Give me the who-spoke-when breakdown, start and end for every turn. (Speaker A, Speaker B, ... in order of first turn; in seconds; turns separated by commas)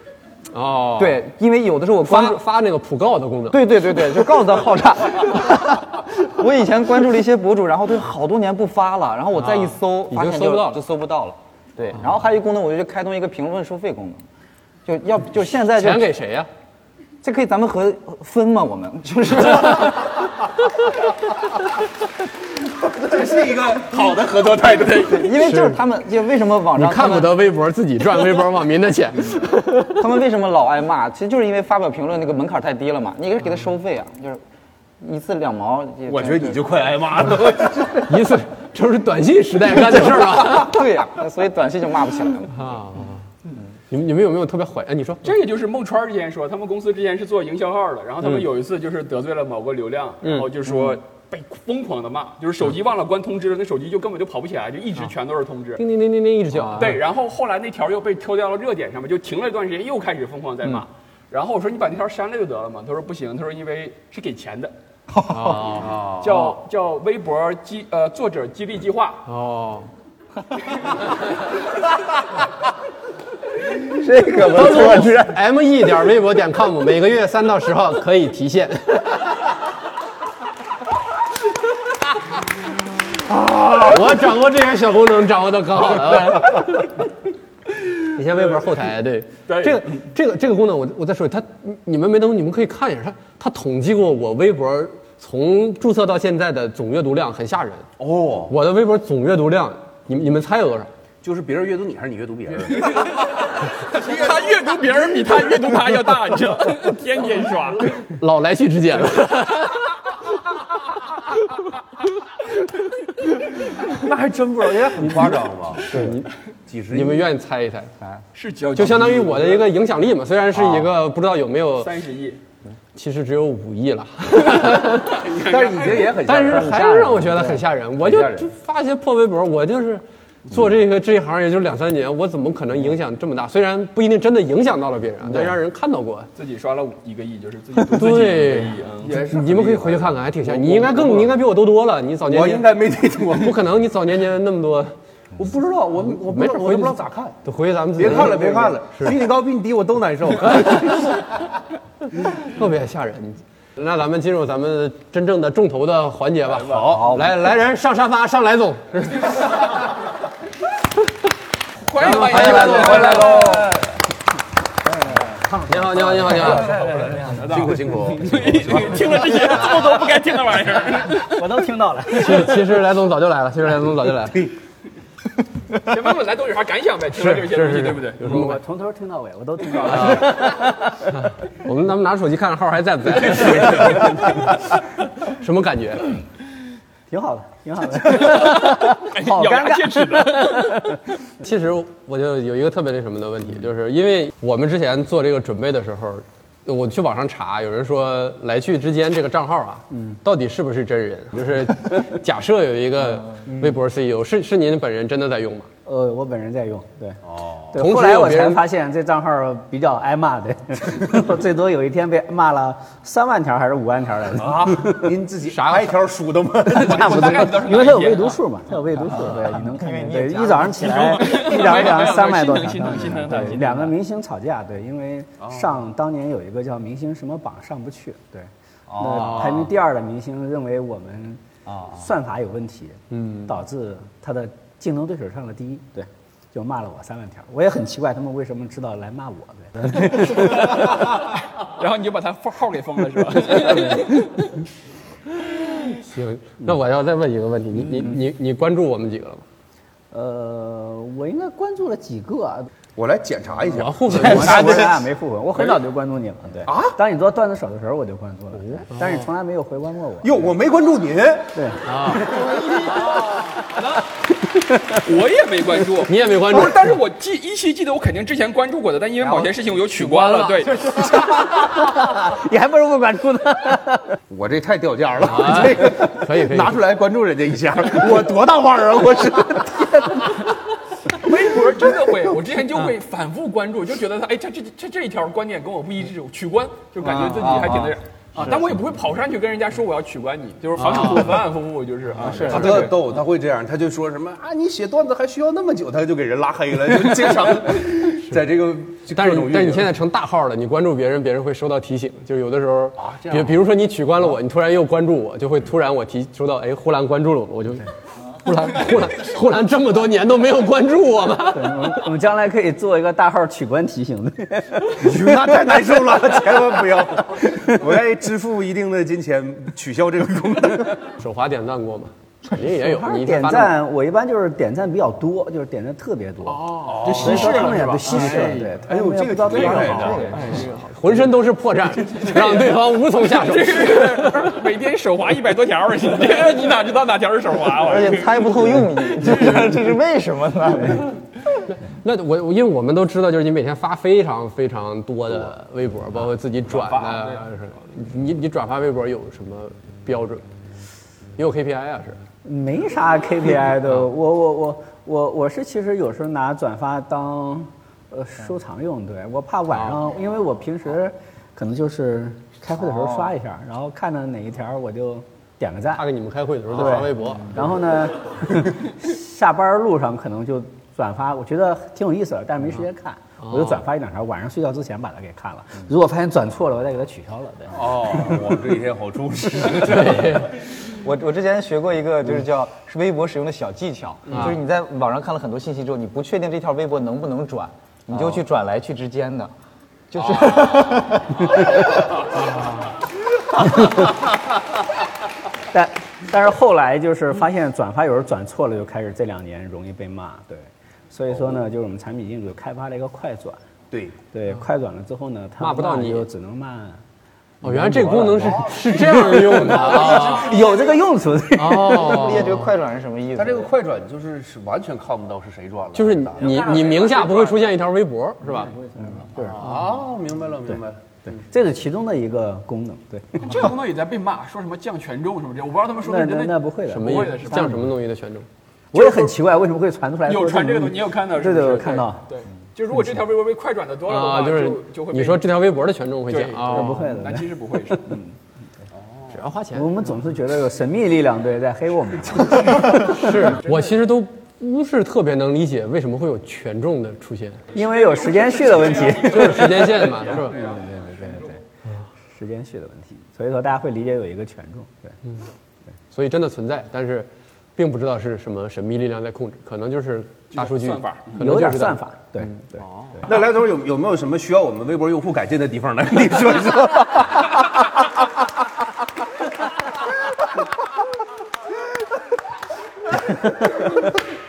Speaker A: 0.5-1.2, Speaker B: 1.0-2.4, Speaker A: 2.0-3.6, Speaker B: 3.5-14.2, Speaker A: 9.3-10.8, Speaker B: 14.8-16.1, Speaker A: 15.7-16.5, Speaker B: 17.2-20.1, Speaker C: 22.9-25.0, Speaker D: 23.7-25.2, Speaker B: 25.0-27.3, Speaker A: 25.3-25.8, Speaker A: 26.8-30.1, Speaker B: 29.9-34.4, Speaker B: 35.0-36.6, Speaker C: 36.1-38.1, Speaker A: 38.0-40.9, Speaker B: 39.8-42.7, Speaker A: 42.5-43.2, Speaker A: 43.9-45.3, Speaker D: 45.2-55.8, Speaker A: 48.2-48.5, Speaker A: 50.2-50.5, Speaker A: 55.8-57.0, Speaker D: 56.7-64.7, Speaker B: 65.1-65.7, Speaker A: 65.3-66.4, Speaker C: 65.7-66.3, Speaker D: 66.2-69.2, Speaker A: 69.2-69.9, Speaker B: 73.8-75.3, Speaker A: 74.3-79.5, Speaker A: 83.2-87.0, Speaker A: 87.9-97.8, Speaker D: 89.5-89.9, Speaker C: 98.0-98.5, Speaker A: 98.5-100.9, Speaker C: 101.2-103.1, Speaker D: 102.9-103.2, Speaker D: 103.8-108.0, Speaker A: 108.0-109.9, Speaker C: 113.8-116.1, Speaker A: 115.8-116.3, Speaker C: 116.7-117.3, Speaker A: 116.9-117.9, Speaker D: 118.3-119.7, Speaker A: 118.7-121.9, Speaker D: 121.8-122.4, Speaker A: 122.9-125.3, Speaker D: 125.2-126.1, Speaker C: 125.2-127.4, Speaker A: 126.1-136.3, Speaker B: 126.8-127.6, Speaker C: 127.9-128.5, Speaker D: 136.3-139.2, Speaker A: 137.9-144.9, Speaker C: 139.0-141.4, Speaker C: 142.2-143.6, Speaker C: 145.4-147.3, Speaker A: 146.0-149.2, Speaker C: 148.0-151.2, Speaker A: 150.4-151.1, Speaker A: 152.2-159.7, Speaker C: 156.5-157.3, Speaker B: 156.9-157.3, Speaker D: 161.8-163.8, Speaker A: 162.0-163.4, Speaker B: 162.3-163.7, Speaker E: 163.0-163.8, Speaker E: 164.8-167.2, Speaker A: 165.7-166.9, Speaker D: 166.6-171.4, Speaker C: 167.3-169.2, Speaker E: 169.4-170.0, Speaker E: 171.1-172.7, Speaker A: 172.1-174.5, Speaker D: 175.8-178.3, Speaker A: 177.1-178.6, Speaker E: 178.2-181.1, Speaker A: 179.8-184.6, Speaker A: 185.2-186.2, Speaker E: 187.1-191.0, Speaker D: 188.2-191.0, Speaker A: 191.4-205.7, Speaker E: 199.9-200.2, Speaker E: 205.8-207.2, Speaker C: 207.2-207.7, Speaker E: 207.7-215.1, Speaker A: 207.8-208.6, Speaker C: 214.4-217.6, Speaker A: 215.4-215.9, Speaker E: 216.7-241.1, Speaker D: 216.7-218.4, Speaker B: 219.1-221.0, Speaker D: 220.8-223.9, Speaker C: 225.4-225.7, Speaker B: 228.9-229.4, Speaker A: 229.1-229.7, Speaker B: 231.7-232.0, Speaker A: 233.1-233.5, Speaker D: 240.7-244.6, Speaker A: 245.8-249.4, Speaker E: 250.1-252.7, Speaker C: 252.9-255.0, Speaker A: 253.7-254.9, Speaker E: 254.1-260.5, Speaker C: 256.7-257.0, Speaker A: 258.9-259.2, Speaker C: 260.2-262.6, Speaker E: 261.5-261.8, Speaker A: 261.8-262.4, Speaker E: 264.5-264.9, Speaker D: 265.0-270.9, Speaker A: 266.0-266.9, Speaker E: 270.0-274.1, Speaker C: 274.3-280.1, Speaker A: 275.2-276.8, Speaker D: 281.1-292.9, Speaker B: 287.0-287.9, Speaker A: 290.8-291.4, Speaker B: 292.2-292.9, Speaker C: 292.4-299.9, Speaker A: 292.5-292.9, Speaker A: 299.1-307.9, Speaker C: 303.0-303.6, Speaker A: 308.4-312.1, Speaker E: 311.5-316.2, Speaker C: 314.9-321.1, Speaker A: 321.2-323.8, Speaker E: 322.8-330.4, Speaker D: 326.5-328.7, Speaker C: 326.7-330.7, Speaker B: 330.0-330.7, Speaker A: 330.5-334.5, Speaker D: 332.1-339.7, Speaker B: 337.8-341.1, Speaker A: 342.0-350.4, Speaker D: 346.7-347.4, Speaker A: 351.4-352.2, Speaker E: 352.4-366.0, Speaker A: 359.7-360.0, Speaker A: 365.9-367.7, Speaker E: 366.7-378.1, Speaker A: 373.4-373.8, Speaker C: 377.7-380.5, Speaker A: 379.7-380.6, Speaker B: 380.9-389.5, Speaker A: 384.3-384.6, Speaker B: 390.1-391.5, Speaker A: 392.3-392.9, Speaker E: 395.7-403.6, Speaker C: 403.9-404.2, Speaker E: 404.3-407.0, Speaker A: 405.6-406.3, Speaker A: 407.6-410.6, Speaker E: 407.6-412.3, Speaker A: 411.5-412.7, Speaker B: 411.9-413.7, Speaker C: 413.4-416.9, Speaker A: 415.9-418.8, Speaker D: 416.8-417.3, Speaker E: 418.6-419.6, Speaker C: 419.5-421.4, Speaker A: 419.6-419.8, Speaker E: 421.3-423.6, Speaker D: 423.4-427.7, Speaker E: 426.0-427.9, Speaker A: 426.9-428.5, Speaker E: 428.9-432.2, Speaker D: 428.9-429.3, Speaker D: 430.3-435.4, Speaker A: 434.1-437.2, Speaker D: 436.3-438.2, Speaker E: 436.7-438.3, Speaker A: 439.3-439.9, Speaker E: 439.7-443.2, Speaker A: 442.8-447.6, Speaker E: 447.7-449.8, Speaker D: 447.8-450.9, Speaker A: 449.3-450.7, Speaker E: 450.5-451.6, Speaker E: 452.3-455.2, Speaker A: 456.1-462.5, Speaker D: 460.5-461.4, Speaker E: 461.4-462.8, Speaker C: 463.2-467.6, Speaker E: 473.4-474.1